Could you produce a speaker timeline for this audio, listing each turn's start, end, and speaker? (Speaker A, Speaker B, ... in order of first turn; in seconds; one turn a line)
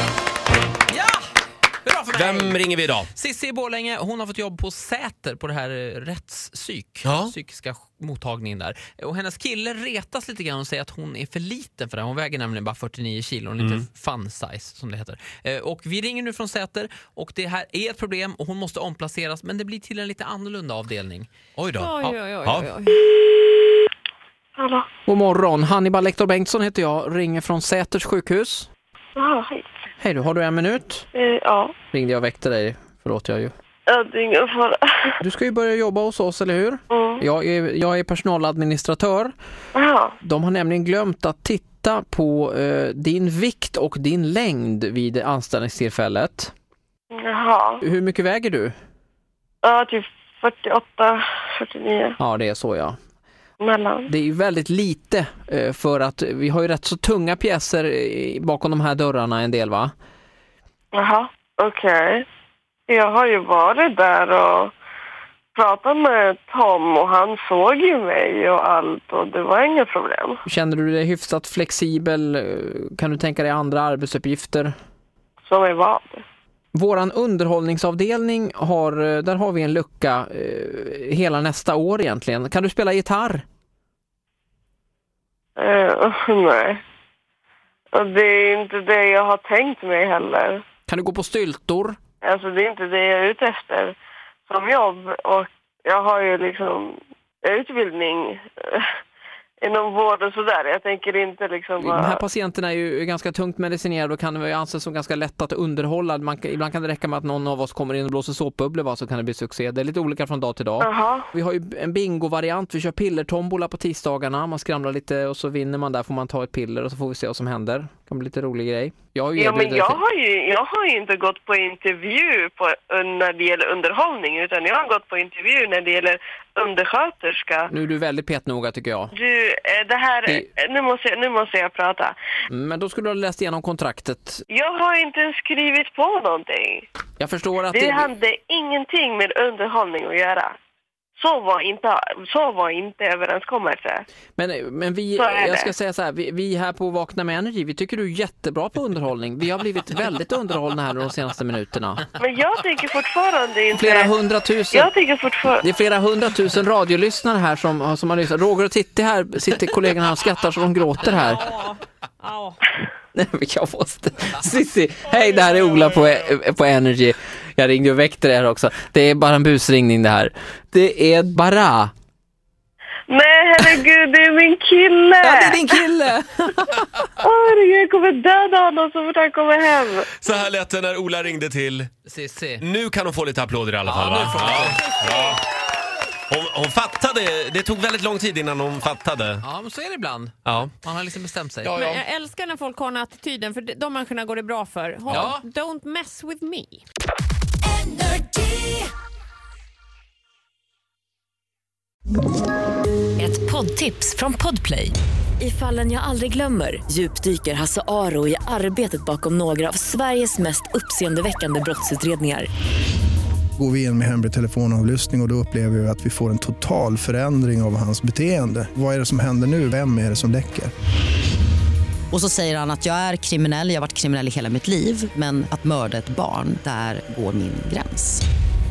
Speaker A: 1.9-2.6
Speaker B: 2.1-3.1
Speaker C: 3.2-4.2
Speaker C: 5.1-5.7
Speaker C: 6.7-7.4
Speaker B: 7.0-7.3
Speaker C: 8.3-12.2
Speaker A: 13.4-14.0
Speaker B: 13.6-13.8
Speaker C: 14.2-15.0
Speaker C: 16.6-17.5
Speaker C: 18.5-21.2
Speaker B: 21.6-22.7
Speaker D: 21.8-23.1
Speaker E: 24.6-24.9
Speaker A: 25.1-28.7
Speaker E: 29.2-29.8
Speaker A: 30.0-31.1
Speaker E: 31.1-31.7
Speaker A: 31.9-33.5
Speaker E: 33.9-35.0
Speaker A: 35.2-39.3
Speaker E: 36.9-37.2
Speaker E: 39.8-40.1
Speaker A: 40.2-46.5
Speaker E: 47.1-47.8
Speaker A: 47.8-48.8
Speaker E: 49.6-52.1
Speaker A: 52.2-53.0
Speaker E: 53.6-54.1
Speaker A: 54.1-59.9
Speaker E: 60.9-62.3
Speaker E: 62.9-64.7
Speaker E: 65.5-70.4
Speaker A: 70.5-74.8
Speaker E: 75.4-76.2
Speaker A: 76.7-83.4
Speaker E: 85.6-86.8
Speaker E: 87.9-90.6
Speaker A: 90.9-92.0
Speaker E: 92.2-94.0
Speaker E: 94.5-98.9
Speaker E: 99.6-102.2
Speaker A: 101.8-120.0
Speaker E: 110.8-111.2
Speaker E: 119.4-127.7
Speaker A: 127.7-129.1
Speaker E: 129.2-132.2
Speaker A: 132.5-134.4
Speaker E: 134.5-136.9
Speaker A: 137.2-138.1
Speaker E: 137.7-140.6
Speaker E: 141.2-144.1
Speaker A: 144.4-152.1
Speaker E: 145.2-145.7
Speaker E: 152.2-154.1
Speaker A: 153.7-155.0
Speaker E: 154.7-155.6
Speaker A: 155.6-161.5
Speaker D: 161.3-162.7
Speaker A: 163.2-171.9
Speaker E: 173.1-175.8
Speaker A: 175.2-177.1
Speaker E: 177.2-180.1
Speaker B: 180.2-181.9
Speaker A: 182.1-182.5
Speaker B: 182.6-185.4
Speaker A: 183.9-184.8
Speaker D: 184.8-185.4
Speaker B: 186.3-189.5
Speaker A: 189.4-190.3
Speaker B: 190.5-190.7
Speaker C: 191.1-191.6
Speaker B: 191.6-192.0
Speaker D: 191.6-196.8
Speaker A: 195.1-195.4
Speaker F: 197.7-198.8
Speaker F: 203.2-212.5
Speaker G: 213.6-220.7
Speaker H: 222.1-228.2